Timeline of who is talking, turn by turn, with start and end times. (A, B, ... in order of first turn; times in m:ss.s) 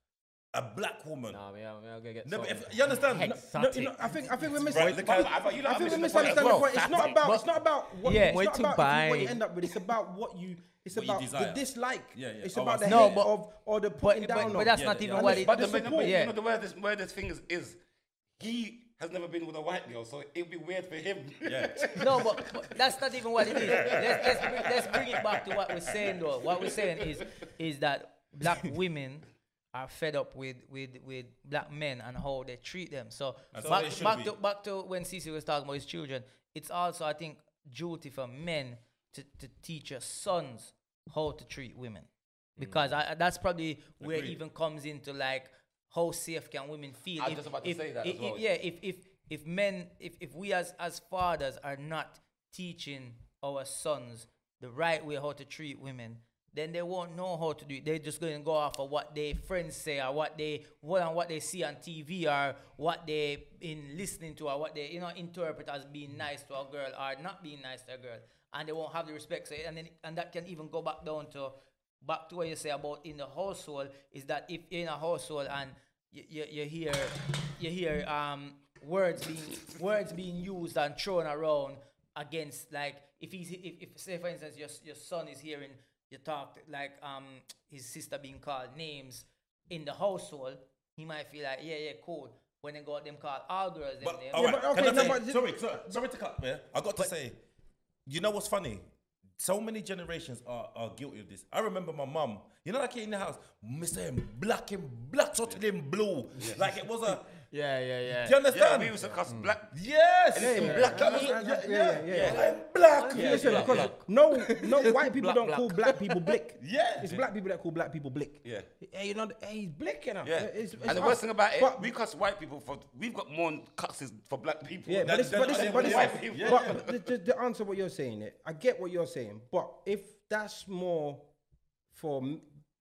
0:00.5-0:01.4 A
0:01.3-0:04.8 B
0:02.2-0:03.4 A
0:03.2-0:16.2 C
0:04.7-0:06.8 A
0:04.7-0:07.2 D
0:07.1-0:07.5 E
0:08.0-0:09.4 E
0:10.9-0:13.3 A
0:12.8-0:13.3 E
0:14.0-0:16.3 E
0:14.4-0:15.5 A
0:15.2-0:17.8 D
0:18.4-0:22.3 D
0:21.4-0:22.3 A
0:22.0-1:35.1 E
0:23.5-0:25.2 A
0:23.6-0:24.7 D
0:33.5-0:34.4 A
0:42.6-0:42.9 B
0:44.0-0:44.4 A
0:47.2-0:48.4 D
1:34.0-1:37.4 A
1:34.3-1:36.0 C
1:38.1-1:38.8 A
1:39.4-1:47.4 A
1:47.4-1:48.4 B
1:48.1-1:49.2 A
1:48.5-1:49.7 D
1:49.3-1:49.6 C
1:49.7-1:53.9 A
1:50.3-1:51.4 D
1:50.4-1:52.5 C
1:50.5-1:51.3 B
1:52.1-1:52.5 D
1:52.3-1:56.4 B
1:53.1-2:01.9 C
1:53.1-1:53.9 D
1:56.6-1:57.2 A
2:00.2-2:07.0 D
2:04.9-2:11.3 C
2:05.0-2:06.9 A
2:11.9-2:12.5 C